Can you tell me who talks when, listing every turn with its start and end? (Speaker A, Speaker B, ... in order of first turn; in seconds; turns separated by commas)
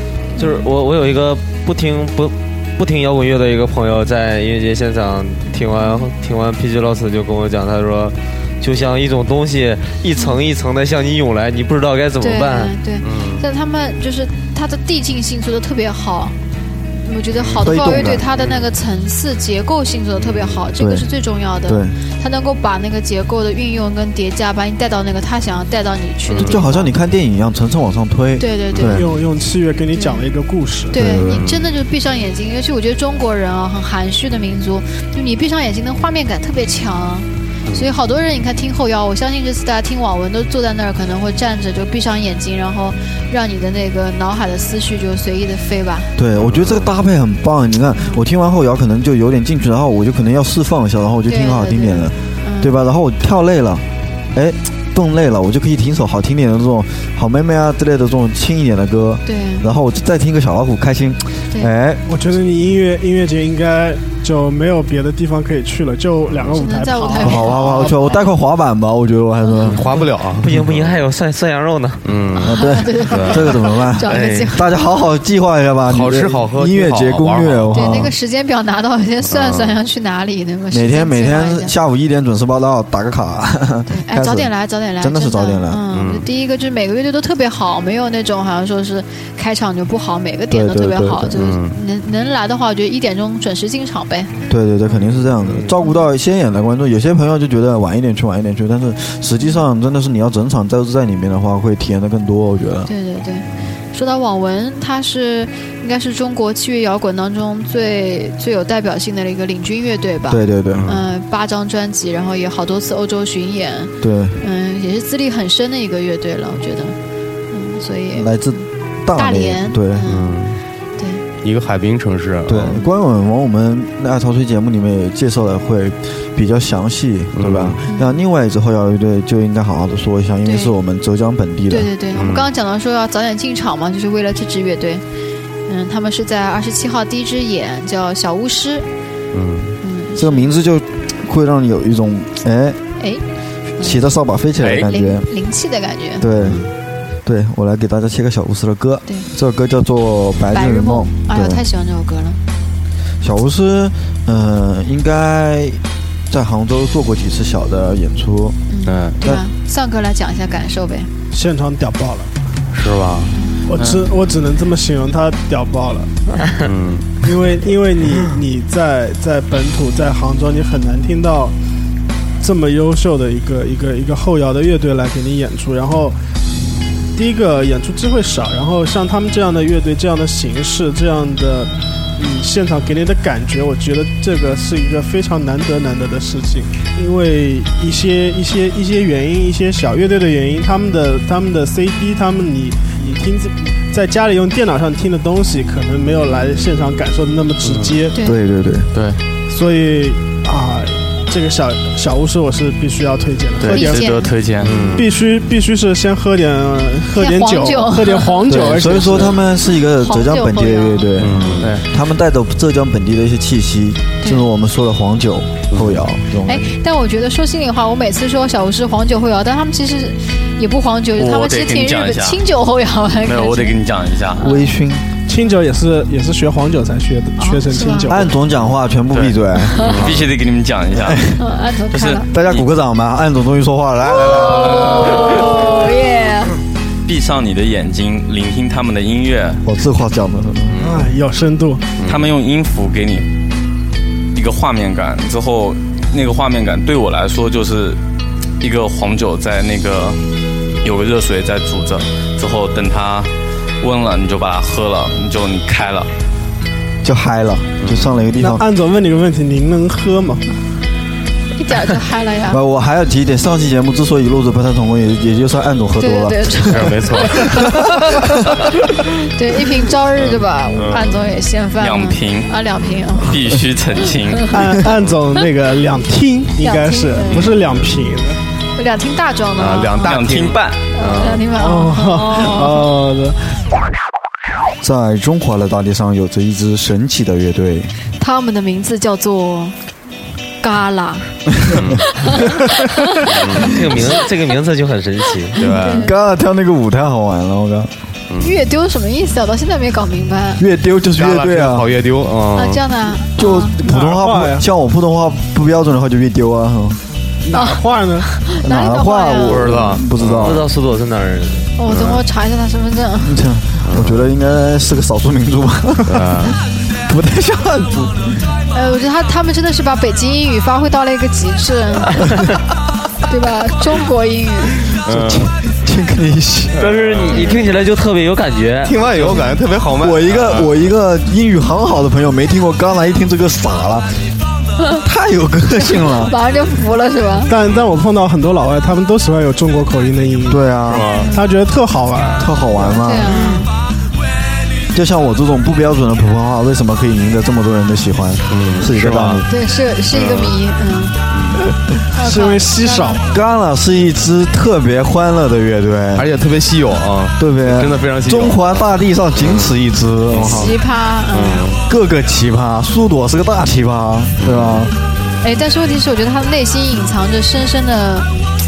Speaker A: 0.4-12.8, Speaker B: 0.4-0.6, Speaker B: 12.2-16.4, Speaker C: 13.1-13.4, Speaker B: 17.0-26.9, Speaker D: 17.6-18.2, Speaker C: 20.2-20.7, Speaker D: 20.8-21.1, Speaker D: 21.7-21.9, Speaker C: 26.3-26.6, Speaker D: 26.4-29.1, Speaker B: 28.4-29.0, Speaker E: 28.8-31.0, Speaker B: 29.9-30.3, Speaker B: 30.9-46.1, Speaker D: 30.9-31.5, Speaker D: 46.1-62.0, Speaker C: 46.3-46.9, Speaker B: 48.0-48.2, Speaker B: 51.3-52.7, Speaker B: 59.3-59.6, Speaker E: 62.1-67.6, Speaker C: 66.3-66.5, Speaker B: 66.5-68.2, Speaker D: 67.2-70.0, Speaker C: 69.6-71.0, Speaker A: 70.4-72.2, Speaker C: 72.0-73.6, Speaker D: 72.4-78.1, Speaker B: 72.5-74.7, Speaker C: 74.1-74.5, Speaker A: 74.1-74.5, Speaker C: 75.9-77.8, Speaker B: 77.7-81.7, Speaker C: 79.2-79.8, Speaker D: 80.7-85.8, Speaker B: 83.9-94.3, Speaker C: 85.9-86.3, Speaker D: 90.5-91.4, Speaker C: 91.4-91.8, Speaker D: 94.5-102.9, Speaker C: 95.0-95.7, Speaker B: 102.9-117.0, Speaker D: 110.3-110.9, Speaker C: 110.7-111.0, Speaker D: 114.0-114.4, Speaker B: 117.5-120.4, Speaker D: 118.1-120.0, Speaker C: 120.0-120.6, Speaker B: 121.0-121.2, Speaker C: 121.4-122.8, Speaker D: 122.5-131.9, Speaker C: 127.4-127.8, Speaker B: 127.9-128.2, Speaker B: 130.4-130.7, Speaker B: 131.7-135.0, Speaker C: 132.2-132.5, Speaker B: 135.7-138.9, Speaker C: 139.3-139.8, Speaker B: 139.8-140.5, Speaker D: 140.2-142.8, Speaker B: 143.8-144.1, Speaker D: 143.8-145.3, Speaker B: 144.7-146.3, Speaker D: 146.2-146.6, Speaker C: 146.4-146.7, Speaker D: 147.2-151.6, Speaker B: 150.5-152.4, Speaker D: 153.2-158.6, Speaker B: 158.7-161.1, Speaker C: 158.9-159.2, Speaker E: 161.3-162.3, Speaker C: 162.7-163.3, Speaker B: 163.3-163.6, Speaker E: 163.7-166.1, Speaker F: 163.8-164.0, Speaker C: 166.6-167.3, Speaker E: 167.2-171.5, Speaker E: 172.4-176.2, Speaker E: 177.1-198.2, Speaker C: 197.6-197.9, Speaker D: 198.2-198.9, Speaker F: 198.9-199.2, Speaker E: 199.5-204.1, Speaker F: 203.6-205.1, Speaker B: 203.7-204.3, Speaker C: 204.6-205.1, Speaker E: 204.9-209.4, Speaker B: 207.1-208.4, Speaker D: 208.4-216.7, Speaker B: 209.9-211.6, Speaker C: 211.2-211.8, Speaker C: 215.7-216.0, Speaker B: 216.4-223.8, Speaker F: 221.2-222.4, Speaker F: 223.2-224.4, Speaker B: 224.4-224.6, Speaker D: 224.4-225.1, Speaker E: 225.3-228.3, Speaker B: 227.4-228.1, Speaker D: 228.1-230.1, Speaker F: 229.1-231.3, Speaker C: 229.8-230.2, Speaker D: 231.0-231.4, Speaker B: 231.4-232.3, Speaker F: 231.9-232.6, Speaker D: 232.3-235.3, Speaker B: 234.1-236.6, Speaker F: 234.4-235.5, Speaker F: 237.1-239.6, Speaker D: 239.6-240.8, Speaker C: 240.7-241.1, Speaker E: 240.8-241.9, Speaker C: 242.0-242.3, Speaker F: 242.0-243.3, Speaker F: 244.3-248.0, Speaker F: 248.6-250.3, Speaker F: 250.8-256.1, Speaker D: 257.0-258.6, Speaker C: 257.8-258.2, Speaker E: 258.4-260.6, Speaker B: 261.6-262.6, Speaker D: 262.5-268.6, Speaker B: 266.0-267.7, Speaker C: 266.7-267.7, Speaker B: 269.2-273.4, Speaker C: 270.2-271.2, Speaker F: 271.8-272.6, Speaker F: 273.2-274.6, Speaker B: 274.3-274.6, Speaker E: 274.5-278.4, Speaker B: 276.6-277.4, Speaker C: 277.3-278.1, Speaker B: 278.8-280.2, Speaker C: 279.6-281.5, Speaker F: 280.0-280.8, Speaker B: 280.9-282.8, Speaker E: 281.6-283.6, Speaker D: 284.8-287.9, Speaker B: 288.2-289.8, Speaker B: 290.6-293.7, Speaker C: 291.7-292.0, Speaker C: 293.3-293.7, Speaker A: 293.5-295.6, Speaker B: 295.6-296.1, Speaker C: 295.6-296.1, Speaker D: 296.0-297.9, Speaker C: 298.3-298.6, Speaker B: 298.4-300.6, Speaker D: 300.6-301.9, Speaker C: 301.1-302.8, Speaker B: 302.6-303.8, Speaker D: 303.4-307.0, Speaker E: 303.8-304.7, Speaker E: 307.4-308.3, Speaker B: 307.5-309.7, Speaker D: 308.6-310.6, Speaker C: 309.4-310.6, Speaker A: 310.4-311.7, Speaker B: 311.8-313.4, Speaker C: 311.9-312.2, Speaker D: 313.2-318.5, Speaker C: 313.8-314.3, Speaker C: 316.1-316.6, Speaker B: 318.7-322.4, Speaker B: 323.3-324.8, Speaker C: 325.0-325.5, Speaker D: 325.1-326.9, Speaker C: 326.7-327.6, Speaker A: 326.8-329.0, Speaker C: 328.8-330.9, Speaker D: 330.0-334.2, Speaker D: 335.0-336.3, Speaker B: 335.8-337.5, Speaker E: 337.5-340.6, Speaker D: 340.5-341.1, Speaker C: 340.9-341.3, Speaker B: 341.2-341.5, Speaker E: 341.3-343.6, Speaker D: 342.4-343.4, Speaker B: 343.0-343.7, Speaker D: 344.9-349.5, Speaker C: 348.5-349.4, Speaker B: 349.5-351.2, Speaker C: 350.1-350.6, Speaker C: 351.3-351.6, Speaker B: 352.1-353.2, Speaker E: 352.1-353.3, Speaker D: 353.3-356.3, Speaker C: 356.1-359.7, Speaker D: 357.4-360.7, Speaker C: 360.3-360.7, Speaker B: 360.4-361.6, Speaker C: 361.3-361.8, Speaker D: 361.9-364.9, Speaker C: 364.4-364.9, Speaker B: 365.4-368.3